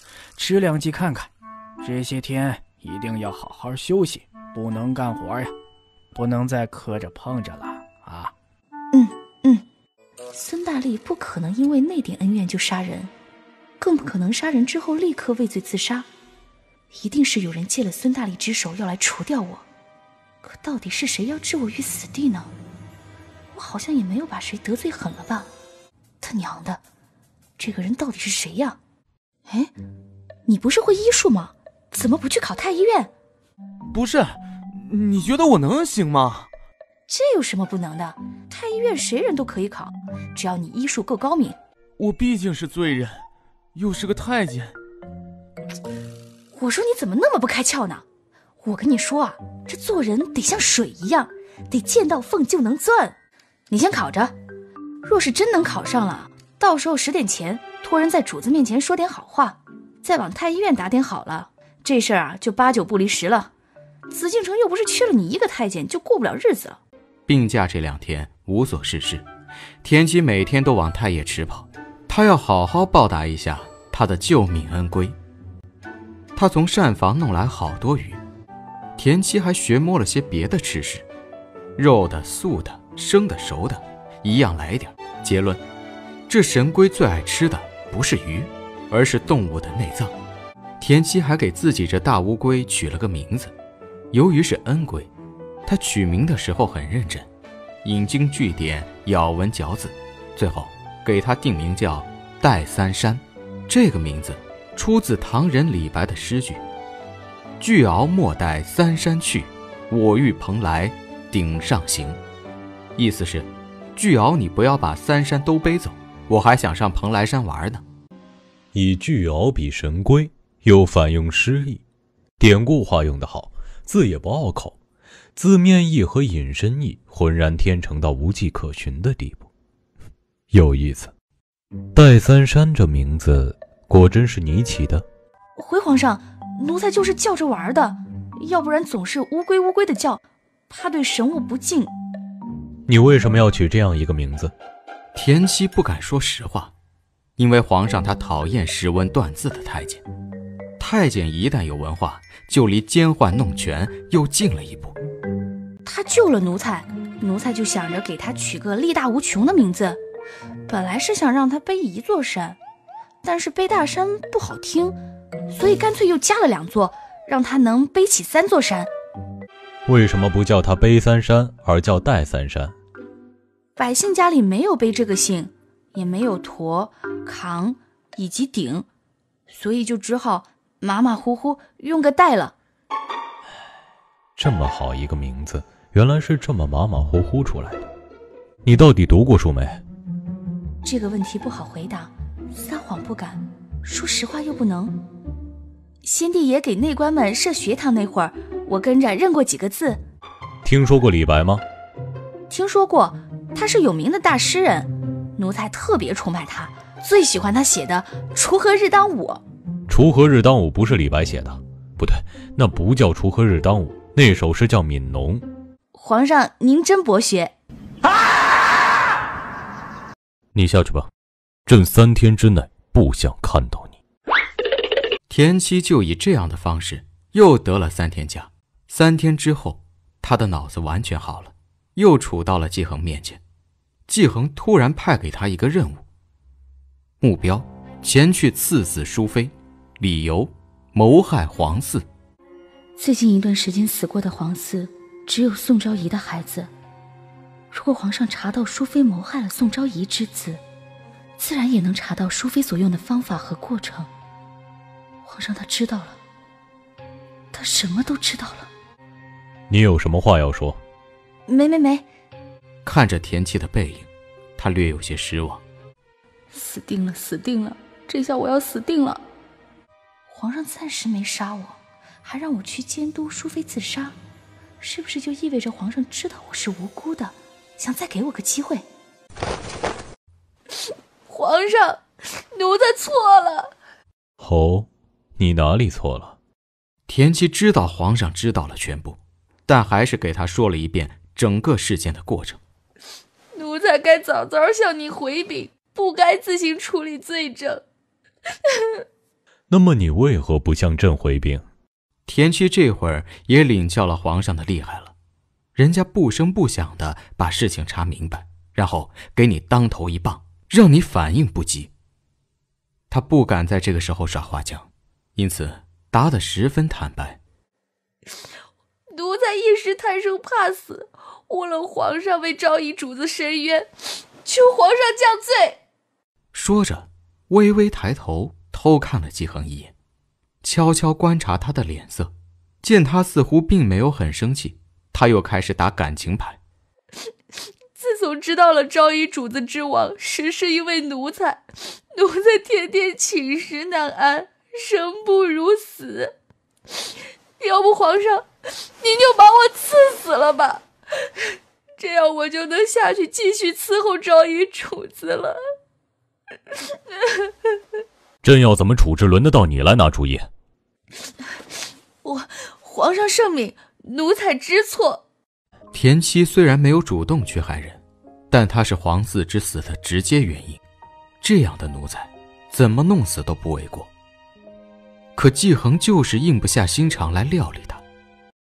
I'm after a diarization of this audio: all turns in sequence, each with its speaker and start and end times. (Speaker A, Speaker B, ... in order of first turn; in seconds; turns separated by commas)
Speaker A: 0.4-1.3, Speaker A: 1.8-5.5, Speaker A: 6.1-8.3, Speaker B: 8.9-9.6, Speaker B: 10.3-13.1, Speaker B: 13.8-16.1, Speaker B: 16.9-19.6, Speaker B: 20.4-22.5, Speaker B: 23.5-25.5, Speaker B: 26.2-26.8, Speaker B: 27.6-28.8, Speaker B: 29.5-29.7, Speaker B: 30.5-33.1, Speaker C: 33.9-36.5, Speaker B: 37.1-41.6, Speaker C: 42.0-44.7, Speaker B: 46.5-48.0, Speaker B: 48.6-53.1, Speaker B: 53.7-54.3, Speaker B: 55.0-63.5, Speaker B: 64.1-66.8, Speaker D: 67.3-69.2, Speaker D: 69.8-75.2, Speaker D: 76.3-78.2, Speaker D: 79.0-81.0, Speaker D: 81.8-85.6, Speaker D: 86.3-90.1, Speaker D: 90.8-93.5, Speaker D: 94.1-95.1, Speaker D: 95.7-97.3, Speaker D: 97.8-106.6, Speaker D: 107.6-112.2, Speaker D: 113.0-117.8, Speaker E: 118.7-121.8, Speaker E: 122.4-124.8, Speaker E: 125.3-129.5, Speaker E: 130.5-131.1, Speaker E: 131.9-135.0, Speaker B: 135.6-141.9, Speaker E: 142.9-144.5, Speaker D: 145.1-146.7, Speaker D: 147.4-150.0, Speaker D: 150.8-154.9, Speaker B: 155.8-160.0, Speaker B: 160.7-162.6, Speaker B: 163.2-165.0, Speaker B: 165.5-168.9, Speaker E: 169.8-172.7, Speaker B: 173.8-178.9, Speaker B: 179.5-182.5, Speaker E: 184.4-187.8, Speaker E: 188.6-189.8, Speaker B: 190.8-195.0, Speaker B: 196.0-200.0, Speaker E: 200.6-201.6, Speaker B: 202.5-209.4, Speaker E: 209.9-215.4, Speaker B: 215.9-217.5, Speaker E: 220.5-221.1, Speaker E: 221.7-224.0, Speaker D: 225.3-233.4, Speaker D: 234.1-236.0, Speaker D: 237.2-242.0, Speaker B: 243.0-246.7, Speaker B: 247.7-250.6, Speaker B: 251.4-254.1, Speaker B: 255.2-256.2, Speaker B: 257.5-258.7, Speaker E: 259.7-260.8, Speaker B: 261.5-262.1, Speaker D: 262.8-265.6, Speaker B: 266.5-269.2, Speaker B: 270.3-274.1, Speaker B: 274.8-278.8, Speaker B: 281.3-283.7, Speaker E: 284.4-286.4, Speaker D: 287.1-292.6, Speaker B: 293.5-297.8, Speaker E: 299.7-301.6, Speaker D: 302.3-305.1, Speaker D: 305.8-311.9, Speaker D: 313.1-317.4, Speaker B: 319.1-323.9, Speaker B: 324.4-325.8, Speaker D: 326.5-329.9, Speaker D: 330.6-336.6, Speaker B: 337.9-346.3, Speaker B: 347.6-348.5, Speaker B: 349.0-350.8, Speaker B: 352.0-355.6, Speaker E: 358.4-360.5, Speaker B: 362.2-365.2, Speaker D: 365.9-370.8, Speaker D: 371.4-374.1, Speaker D: 375.4-378.0